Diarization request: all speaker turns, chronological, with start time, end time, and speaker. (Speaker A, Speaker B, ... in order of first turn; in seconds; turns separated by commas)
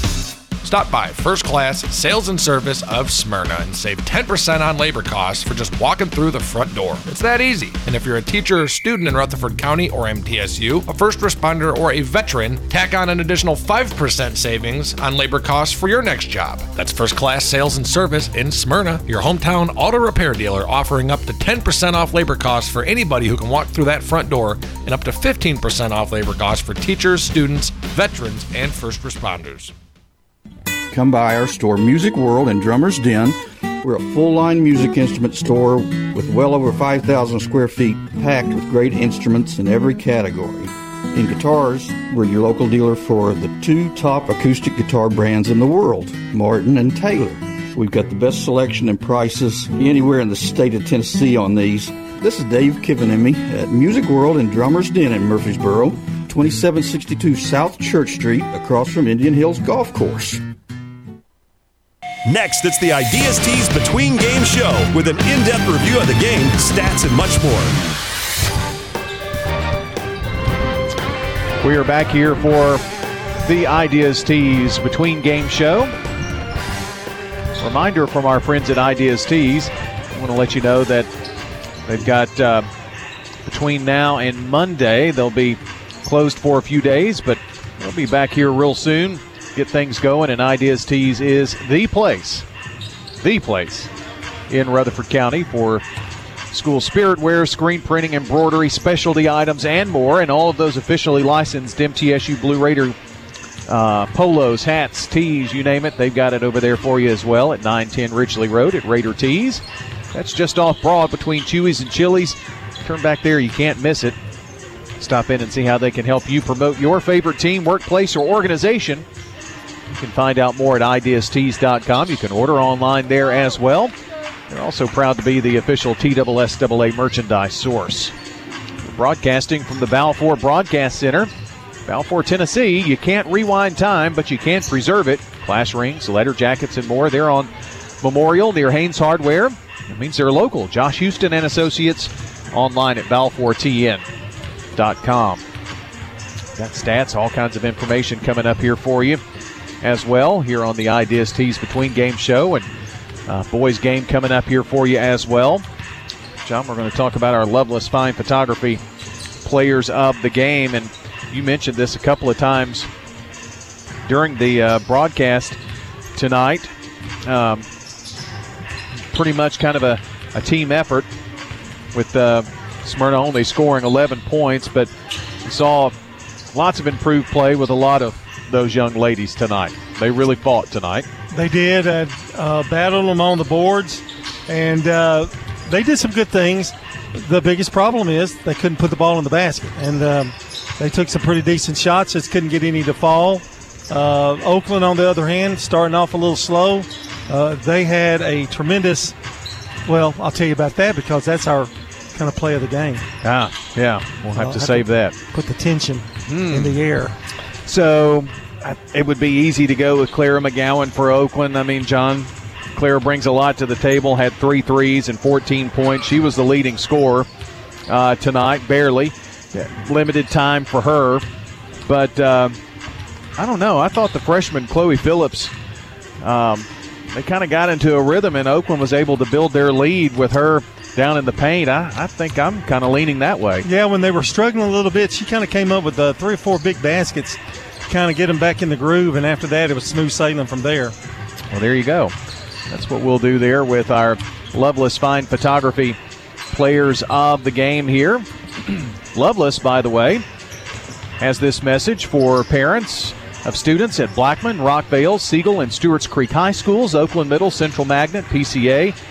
Speaker A: 0.6-29.7, Speaker B: 30.9-60.4, Speaker C: 62.2-67.8, Speaker D: 71.6-72.8, Speaker D: 73.4-75.9, Speaker D: 77.6-81.1, Speaker D: 81.8-82.7, Speaker D: 83.5-92.4, Speaker D: 93.2-93.9, Speaker D: 94.5-95.8, Speaker D: 96.5-103.0, Speaker D: 103.7-114.2, Speaker D: 115.0-119.0, Speaker D: 120.0-123.9, Speaker D: 124.5-128.1, Speaker D: 128.8-131.3, Speaker D: 131.8-137.5, Speaker D: 138.0-144.0, Speaker D: 144.7-145.4, Speaker D: 146.6-149.2, Speaker D: 149.8-152.7, Speaker D: 153.3-155.6, Speaker D: 156.4-158.8, Speaker D: 159.4-162.9, Speaker D: 164.1-165.6, Speaker D: 166.1-166.7, Speaker D: 167.2-167.7, Speaker D: 169.1-171.1, Speaker D: 171.9-174.9, Speaker D: 175.4-175.9, Speaker D: 176.5-181.1, Speaker E: 181.3-199.1, Speaker E: 199.8-203.0, Speaker D: 203.2-205.2, Speaker E: 204.3-207.2, Speaker D: 206.3-206.8, Speaker D: 207.6-217.3, Speaker D: 217.9-221.2, Speaker D: 221.9-222.6, Speaker D: 223.4-225.5, Speaker D: 226.2-233.7, Speaker E: 233.6-240.9, Speaker D: 241.5-242.1, Speaker D: 242.7-246.0, Speaker D: 246.5-250.2, Speaker D: 251.2-258.9